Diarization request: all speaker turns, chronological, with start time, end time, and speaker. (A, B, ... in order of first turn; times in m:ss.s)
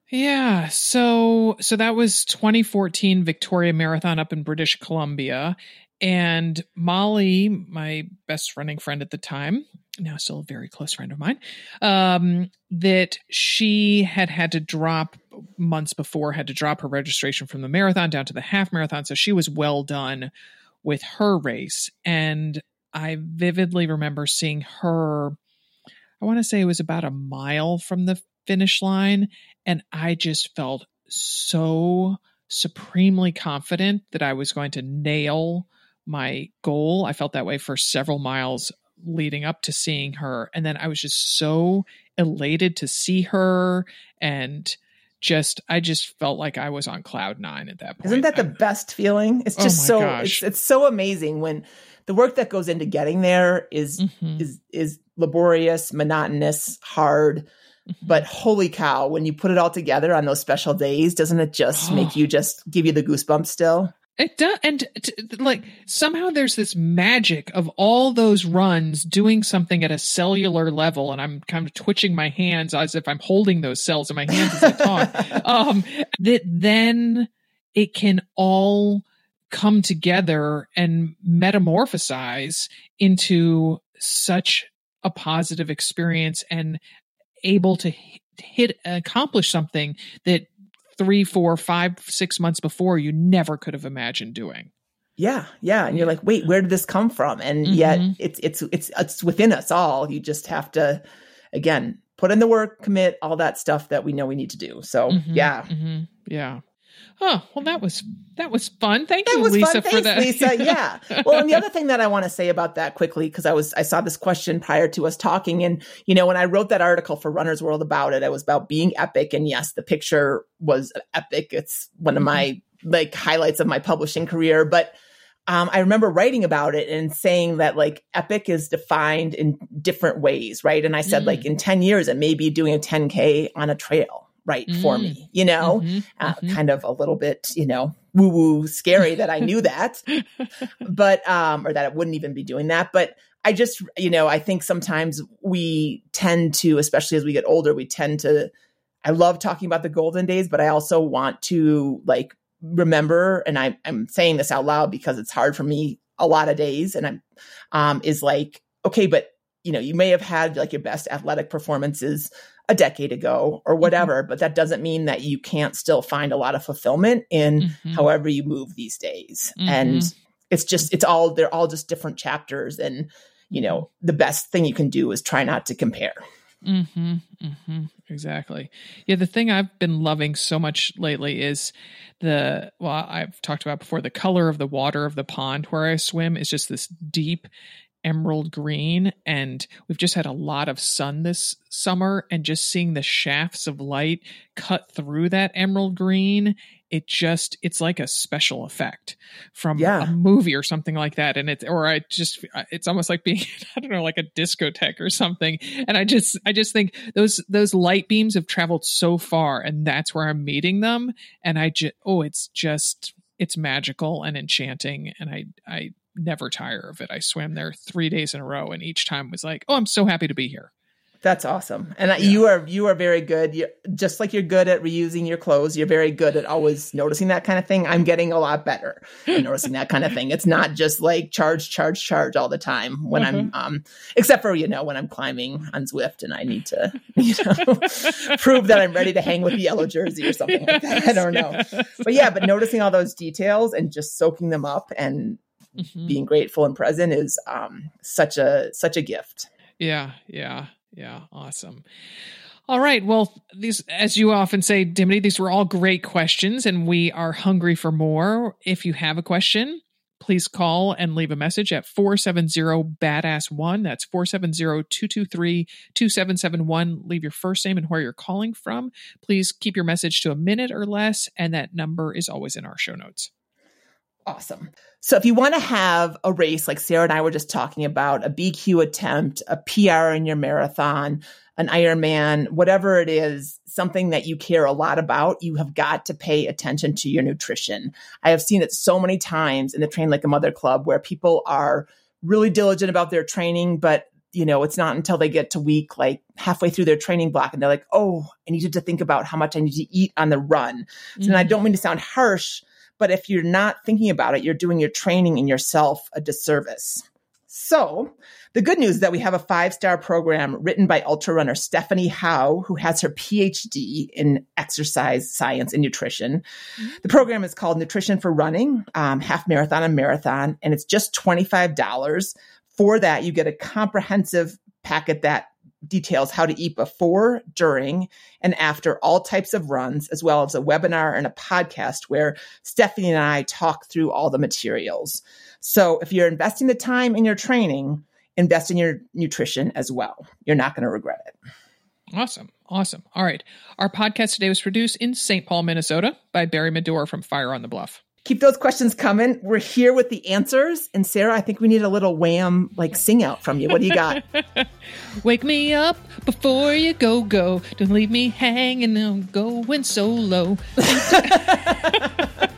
0:00.1-0:20.3 A
0:20.8-0:25.4 A
0:26.2-0:48.5 A
0:48.0-0:57.5 B
0:49.6-0:50.4 A
0:54.0-0:54.4 A
0:58.0-1:03.9 B
1:01.8-1:02.2 A
1:04.2-1:26.8 A
1:14.3-1:15.4 B
1:27.4-1:34.7 A
1:35.2-1:45.7 B
1:37.6-1:38.2 A
1:45.1-1:46.6 A
1:47.2-1:51.6 A
1:49.3-2:05.0 B
2:05.5-2:20.1 B
2:11.1-2:11.4 A
2:14.7-2:16.6 A
2:20.8-2:28.5 B
2:29.0-2:56.2 B
2:47.6-2:48.1 A
2:49.6-2:50.1 A
2:56.6-3:07.5 A
3:08.0-3:40.7 A
3:19.8-3:20.1 B
3:41.2-4:05.4 B
3:53.2-3:53.5 A
4:00.6-4:02.5 A
4:05.8-4:06.2 A
4:06.0-4:09.5 B
4:09.8-4:11.8 A
4:12.7-4:33.3 A
4:34.3-5:16.4 B
5:01.2-5:01.5 A
5:17.0-5:41.3 B
5:42.1-5:48.0 A
5:48.2-5:54.2 B
5:54.1-5:54.7 A
5:55.2-6:02.0 A
6:00.8-6:02.3 B